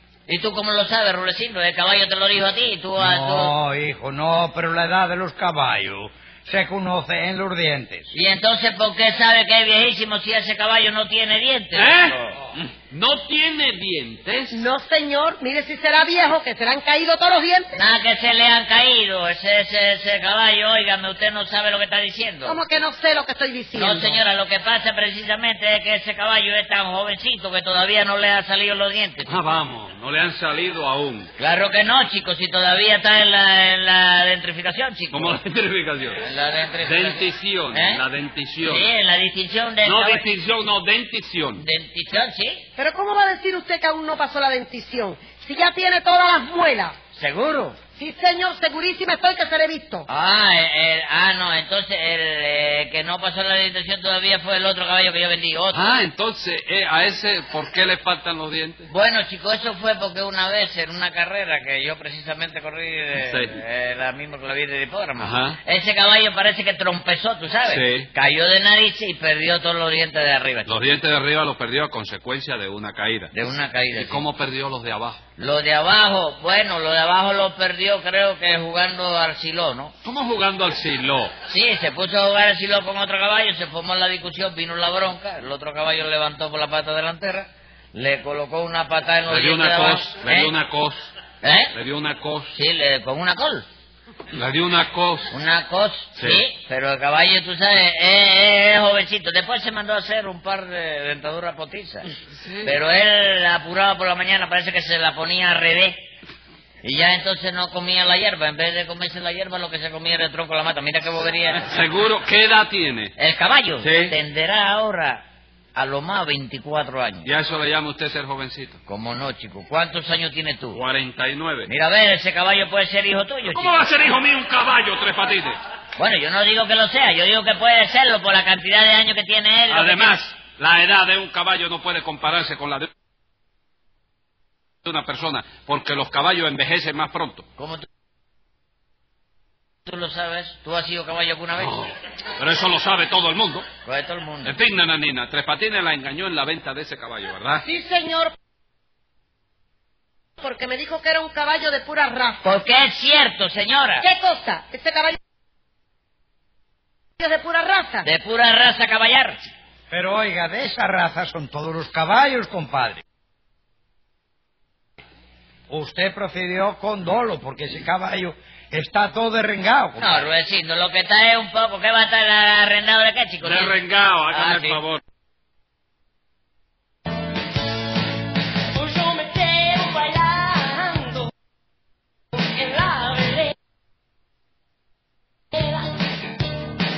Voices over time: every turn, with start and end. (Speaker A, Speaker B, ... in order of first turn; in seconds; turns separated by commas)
Speaker A: 0.3-3.5, Speaker B: 3.0-8.1, Speaker A: 8.1-12.4, Speaker C: 11.7-14.6, Speaker D: 14.5-17.7, Speaker A: 17.8-22.6, Speaker D: 22.4-24.2, Speaker A: 23.8-29.4, Speaker C: 29.2-31.3, Speaker A: 31.4-35.4, Speaker C: 35.1-36.2, Speaker A: 36.2-38.0, Speaker C: 36.8-38.9, Speaker A: 38.6-40.2, Speaker C: 39.8-41.6, Speaker A: 41.6-42.7, Speaker D: 42.8-47.0, Speaker A: 47.1-47.8, Speaker D: 48.0-50.0, Speaker A: 50.1-55.9, Speaker C: 55.7-58.9, Speaker A: 58.9-70.8, Speaker C: 63.2-63.6, Speaker C: 65.2-65.6, Speaker C: 67.7-68.1, Speaker C: 70.7-73.3, Speaker A: 73.3-74.2, Speaker C: 73.9-75.2, Speaker A: 75.4-79.9, Speaker C: 80.0-81.3, Speaker A: 81.5-90.5, Speaker C: 89.3-91.1, Speaker A: 91.4-91.7, Speaker C: 91.7-92.5, Speaker A: 92.5-93.7, Speaker C: 94.3-95.3, Speaker A: 95.3-102.0, Speaker C: 96.2-96.4, Speaker C: 102.3-102.8, Speaker A: 102.6-106.0, Speaker A: 106.8-111.7, Speaker C: 111.6-113.1, Speaker A: 113.2-115.2, Speaker C: 113.8-114.2, Speaker A: 115.7-117.3, Speaker C: 117.2-118.8, Speaker A: 118.9-120.8, Speaker C: 120.7-121.7, Speaker A: 121.7-123.8, Speaker C: 123.4-125.6, Speaker A: 126.0-130.2, Speaker C: 129.7-132.9, Speaker C: 134.8-137.4, Speaker A: 137.6-137.8, Speaker A: 139.8-141.7, Speaker C: 141.6-143.7, Speaker A: 143.8-144.6, Speaker C: 144.4-147.6, Speaker D: 147.6-148.3, Speaker D: 150.4-152.4, Speaker A: 152.4-154.1, Speaker D: 154.0-155.2, Speaker D: 157.2-158.1, Speaker A: 158.0-159.5, Speaker B: 159.9-163.0, Speaker B: 165.7-170.1, Speaker A: 170.0-173.7, Speaker C: 173.4-175.0, Speaker A: 174.3-174.8, Speaker D: 178.7-181.3, Speaker D: 182.3-183.5, Speaker D: 185.5-185.9